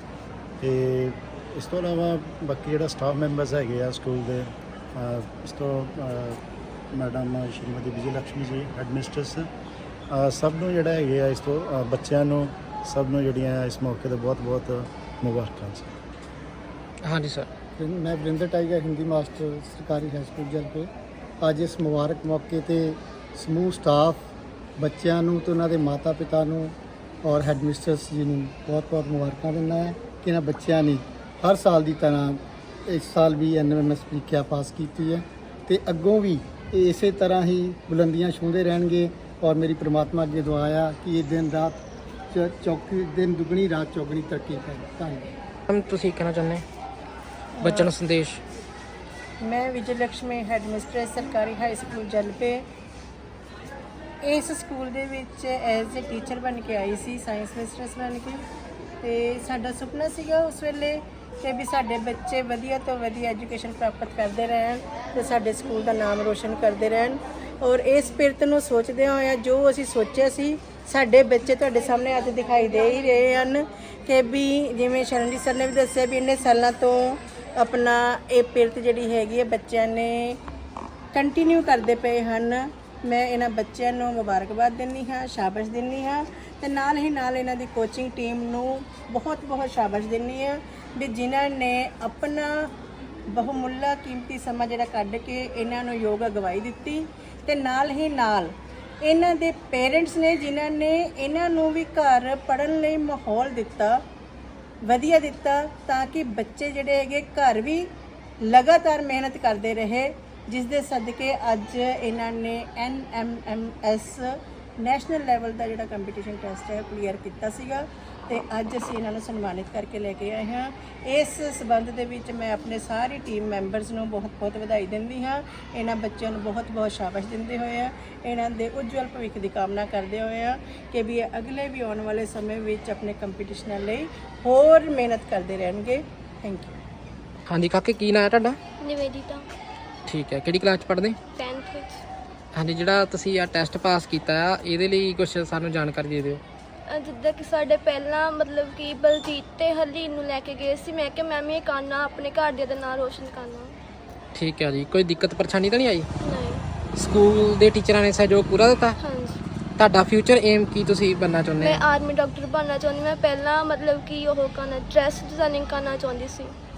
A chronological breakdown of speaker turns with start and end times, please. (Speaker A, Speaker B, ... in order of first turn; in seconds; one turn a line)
Speaker A: 0.6-6.4
Speaker A: 6.9-9.5
Speaker A: 10.1-15.9
Speaker B: 17.0-17.5
Speaker C: 17.8-24.2
Speaker C: 24.8-45.3
Speaker B: 45.7-46.6
Speaker D: 47.6-47.9
Speaker B: 47.6-48.4
Speaker D: 49.4-52.6
Speaker D: 54.2-58.4
Speaker D: 59.0-80.4
Speaker D: 81.1-92.7
Speaker D: 93.3-98.5
Speaker D: 99.0-104.0
Speaker D: 104.8-107.9
Speaker D: 108.5-136.8
Speaker B: 137.5-138.6
Speaker E: 138.8-139.4
Speaker B: 140.1-141.2
Speaker E: 141.3-142.0
Speaker B: 142.5-146.4
Speaker E: 146.9-153.7
Speaker B: 154.3-156.1
Speaker E: 156.2-156.6
Speaker B: 157.0-159.0
Speaker E: 159.0-159.4
Speaker B: 159.8-161.8
Speaker E: 161.6-166.5